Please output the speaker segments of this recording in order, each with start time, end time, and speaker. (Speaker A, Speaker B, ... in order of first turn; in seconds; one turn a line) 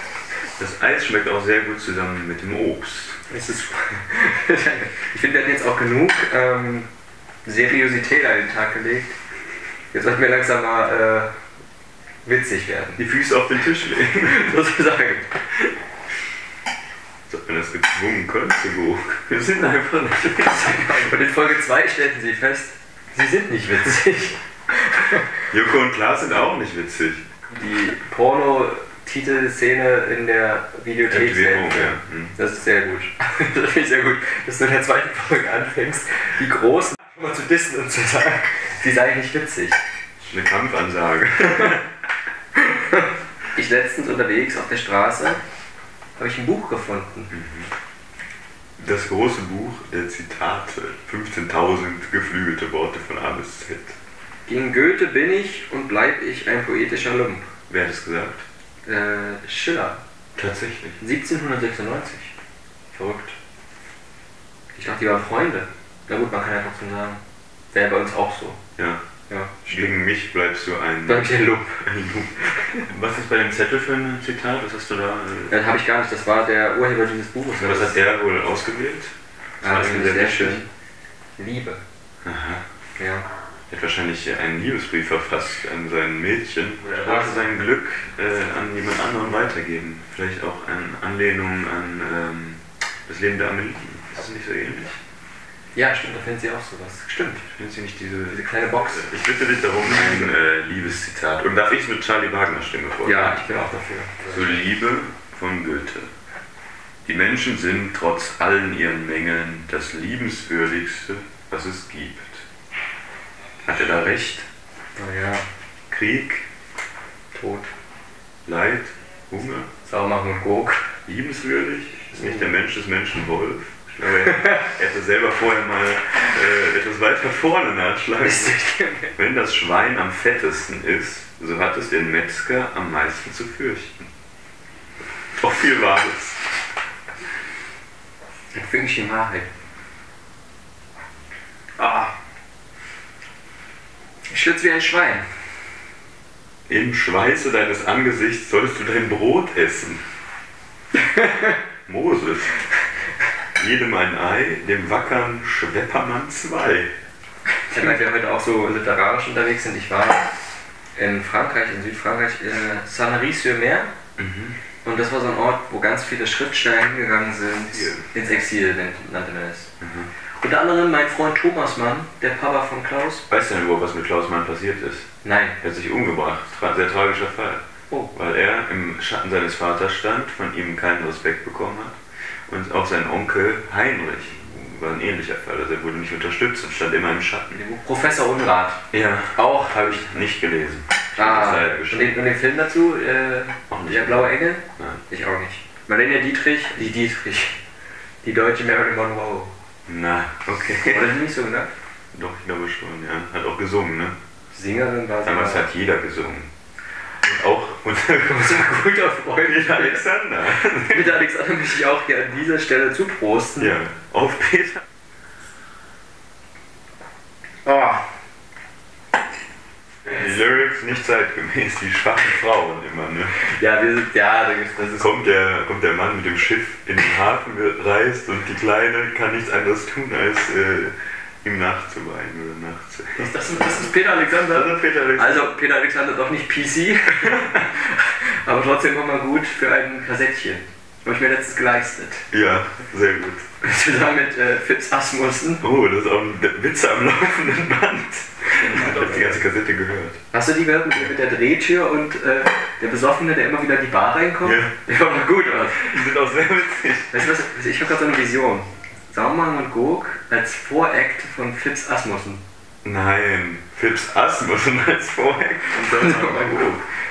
Speaker A: 0.6-3.2
Speaker B: 3.3-6.9
Speaker B: 7.4-9.2
Speaker B: 9.9-11.3
Speaker B: 12.2-13.0
Speaker A: 13.0-14.5
Speaker B: 14.2-15.4
Speaker A: 17.3-21.1
Speaker B: 20.3-25.3
Speaker A: 25.5-27.2
Speaker B: 27.5-39.8
Speaker A: 31.1-32.4
Speaker A: 40.2-41.9
Speaker B: 42.6-45.4
Speaker B: 46.2-47.3
Speaker A: 47.3-47.7
Speaker A: 48.8-54.0
Speaker B: 54.5-57.5
Speaker A: 57.7-58.4
Speaker B: 58.9-60.0
Speaker A: 60.4-61.0
Speaker B: 61.0-62.3
Speaker B: 62.9-63.4
Speaker B: 64.7-67.2
Speaker B: 67.7-68.6
Speaker A: 68.8-69.0
Speaker B: 69.3-69.9
Speaker A: 69.7-75.6
Speaker B: 71.0-71.8
Speaker B: 72.6-72.8
Speaker B: 75.5-78.0
Speaker A: 77.5-80.6
Speaker B: 79.6-80.7
Speaker B: 81.4-81.8
Speaker A: 82.2-82.6
Speaker B: 83.0-83.2
Speaker A: 83.7-95.0
Speaker B: 87.0-87.5
Speaker B: 95.7-97.5
Speaker A: 97.5-103.4
Speaker B: 98.3-99.1
Speaker B: 99.8-100.3
Speaker B: 103.0-104.7
Speaker A: 104.3-106.1
Speaker A: 107.0-112.5
Speaker A: 113.6-114.5
Speaker B: 115.0-115.5
Speaker A: 115.9-116.5
Speaker B: 117.3-117.7
Speaker A: 118.5-119.7
Speaker B: 119.8-120.9
Speaker A: 121.0-128.6
Speaker B: 122.1-122.5
Speaker B: 128.2-129.1
Speaker A: 129.1-134.1
Speaker A: 135.4-136.4
Speaker B: 138.5-139.5
Speaker B: 141.8-142.1
Speaker B: 144.3-145.2
Speaker A: 146.7-150.0
Speaker B: 151.1-151.5
Speaker A: 151.9-152.6
Speaker A: 153.5-156.9
Speaker B: 157.7-160.3
Speaker B: 160.9-163.9
Speaker A: 164.2-164.6
Speaker B: 164.8-169.7
Speaker A: 167.6-168.1
Speaker A: 169.8-170.1
Speaker B: 170.4-173.2
Speaker A: 173.3-175.1
Speaker B: 175.2-175.6
Speaker A: 175.6-187.6
Speaker B: 187.5-188.8
Speaker A: 188.9-192.2
Speaker B: 189.3-190.1
Speaker B: 191.2-197.6
Speaker A: 193.7-195.0
Speaker B: 198.2-199.5
Speaker A: 199.9-201.2
Speaker B: 200.8-201.7
Speaker A: 202.1-204.2
Speaker B: 204.5-205.7
Speaker A: 205.2-206.5
Speaker A: 207.2-211.2
Speaker B: 208.3-210.1
Speaker B: 210.6-213.8
Speaker A: 213.6-214.8
Speaker B: 217.6-218.0
Speaker A: 220.0-223.4
Speaker B: 223.4-225.1
Speaker A: 225.0-235.5
Speaker B: 233.2-242.2
Speaker A: 242.3-243.4
Speaker B: 243.6-245.6
Speaker A: 245.6-250.2
Speaker B: 248.5-249.4
Speaker B: 250.3-256.0
Speaker A: 254.4-254.8
Speaker A: 255.6-257.3
Speaker B: 257.1-262.4
Speaker A: 262.8-266.8
Speaker B: 265.7-266.7